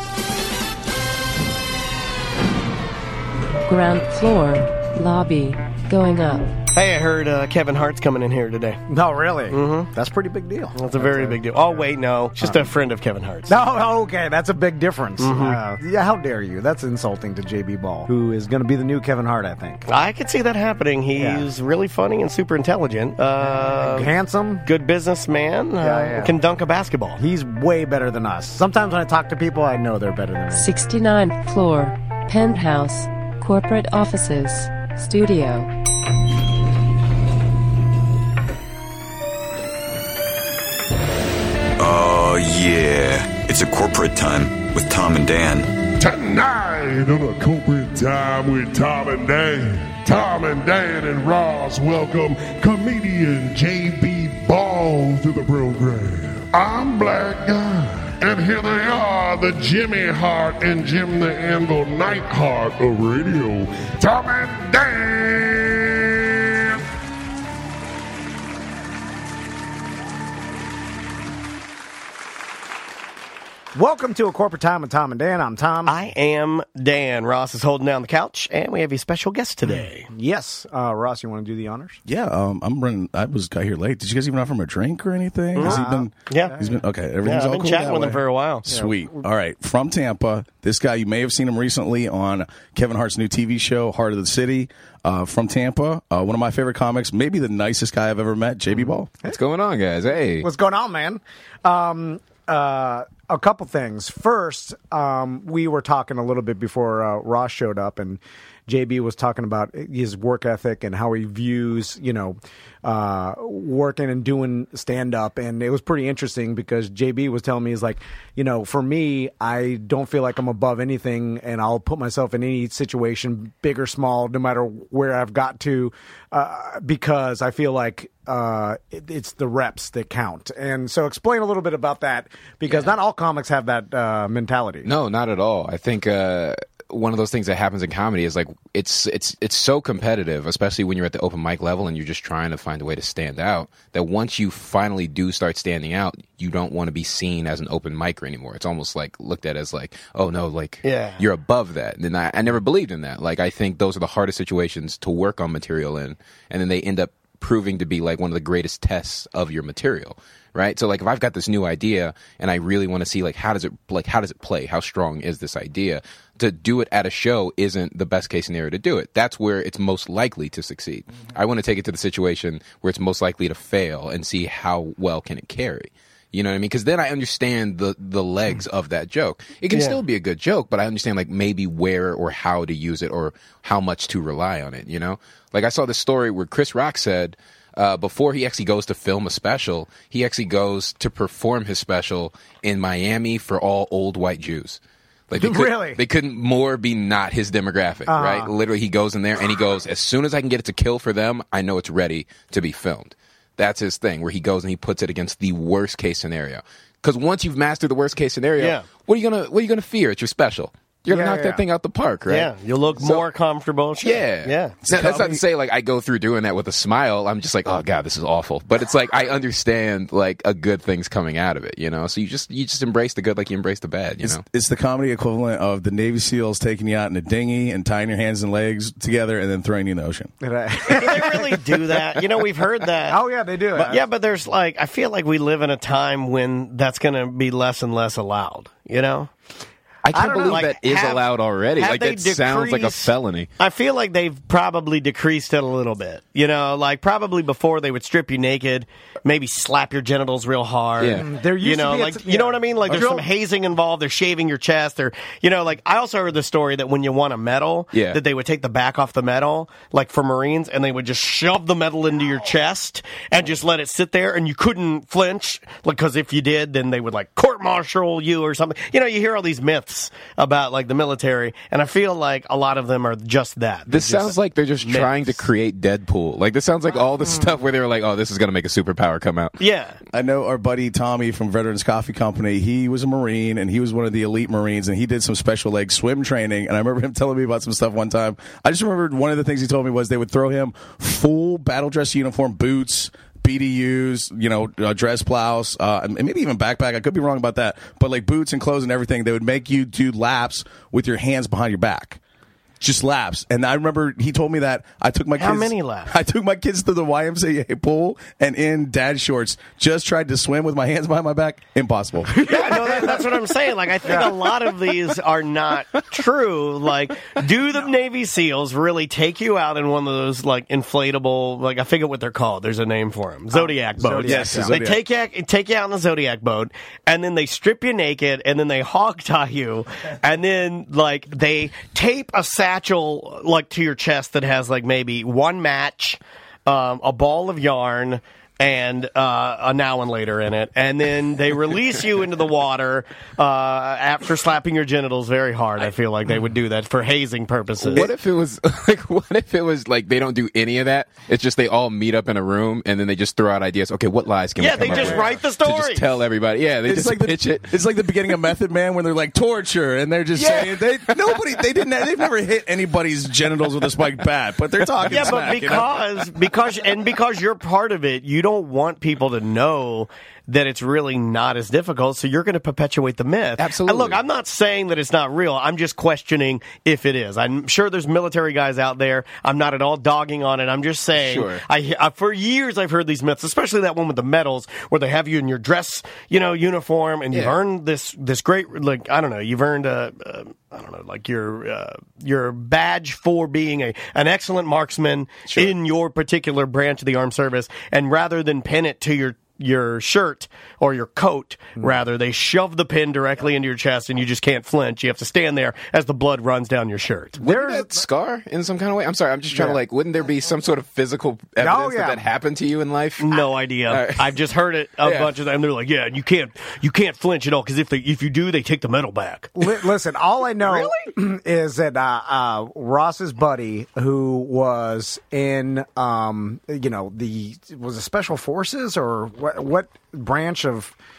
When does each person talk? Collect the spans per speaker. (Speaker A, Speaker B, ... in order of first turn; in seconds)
Speaker A: 3.6-6.5, 30.5-35.7
Speaker B: 6.7-8.8, 9.5-9.9, 10.7-13.6, 15.2-15.6, 19.9-24.1, 24.6-27.2, 75.8-80.1, 85.5-86.5, 87.2-88.7, 150.8-151.2, 179.7-180.0, 208.6-208.8, 212.3-214.8, 230.9-233.2, 233.7-239.3, 240.5-241.3, 241.8-275.4, 279.6-280.0, 305.4-306.1, 312.4-348.1, 354.6-356.1, 365.1-407.4, 413.2-419.5
Speaker C: 8.9-11.8, 12.4-12.7, 13.5-19.8, 21.2-21.4, 23.7-24.7, 25.8-26.3, 27.2-30.7, 73.7-75.9, 79.7-82.0, 85.6-86.8, 88.7-89.2, 98.8-99.3, 100.4-134.9, 195.4-196.0, 198.1-198.5, 211.1-211.6, 230.4-231.6, 233.1-234.0, 240.1-240.7, 251.2-253.3, 312.3-313.2, 314.0-314.4, 323.5-324.8, 407.4-408.0, 411.6-412.2, 419.6-430.9
Speaker D: 41.8-45.7
Speaker E: 46.0-66.8
Speaker F: 82.0-99.1, 214.9-215.4, 224.2-230.3, 280.1-302.2, 302.8-312.4, 324.2-325.0, 354.8-355.2, 356.9-366.0
Speaker G: 99.2-100.5, 132.7-132.9, 134.8-213.2, 214.0-224.4, 240.0-243.5, 251.0-251.3, 257.9-258.2, 273.9-279.6, 347.8-357.7, 360.3-361.6, 373.6-374.2, 381.1-381.6, 395.5-395.7, 407.4-414.3, 415.0-415.3